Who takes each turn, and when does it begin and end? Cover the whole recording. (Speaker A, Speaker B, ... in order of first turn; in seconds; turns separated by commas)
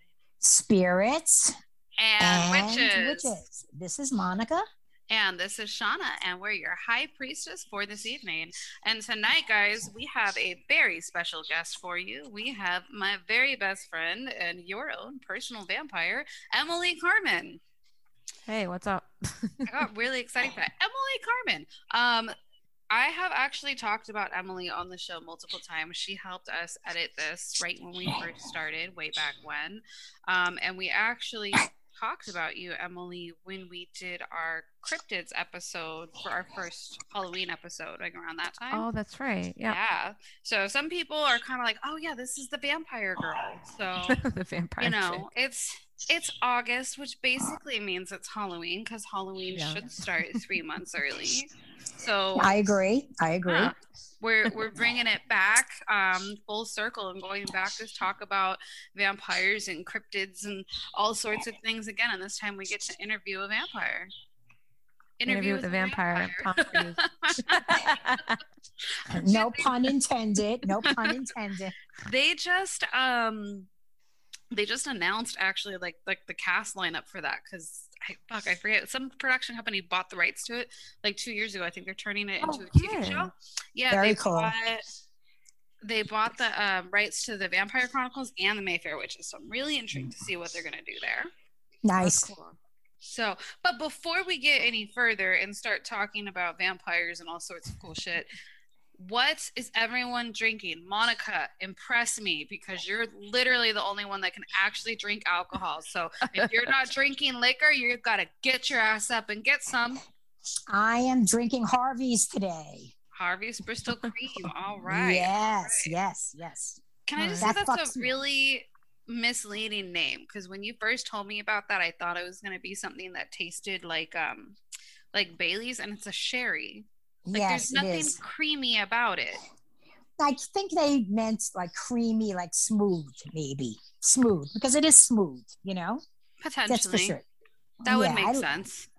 Speaker A: 0.4-1.6, Speaker B: 2.0-3.3, Speaker A: 2.2-4.6, Speaker B: 5.1-17.6, Speaker C: 18.5-19.7, Speaker B: 19.7-22.3, Speaker B: 22.9-38.9, Speaker C: 38.7-39.8, Speaker B: 39.7-44.2, Speaker C: 44.1-45.3, Speaker B: 44.8-52.5, Speaker C: 49.5-50.4, Speaker A: 52.4-53.7, Speaker B: 53.5-64.1, Speaker B: 65.2-67.9, Speaker C: 65.2-68.4, Speaker B: 68.9-69.7, Speaker A: 69.1-71.8, Speaker B: 70.8-71.2, Speaker B: 72.0-73.7, Speaker B: 74.5-84.8, Speaker C: 82.4-83.3, Speaker A: 83.9-84.5, Speaker B: 85.8-91.3, Speaker A: 91.8-92.3, Speaker C: 92.0-92.6, Speaker B: 93.0-98.3, Speaker B: 99.0-110.0, Speaker C: 106.3-106.7, Speaker A: 110.7-112.9, Speaker B: 113.2-116.0, Speaker A: 114.9-116.8, Speaker B: 117.0-124.6, Speaker C: 117.2-117.5, Speaker A: 117.4-118.0, Speaker B: 125.1-129.4, Speaker A: 127.2-128.2, Speaker A: 130.2-136.0, Speaker B: 136.4-137.2, Speaker A: 136.7-137.2, Speaker A: 137.8-138.5, Speaker B: 137.9-138.9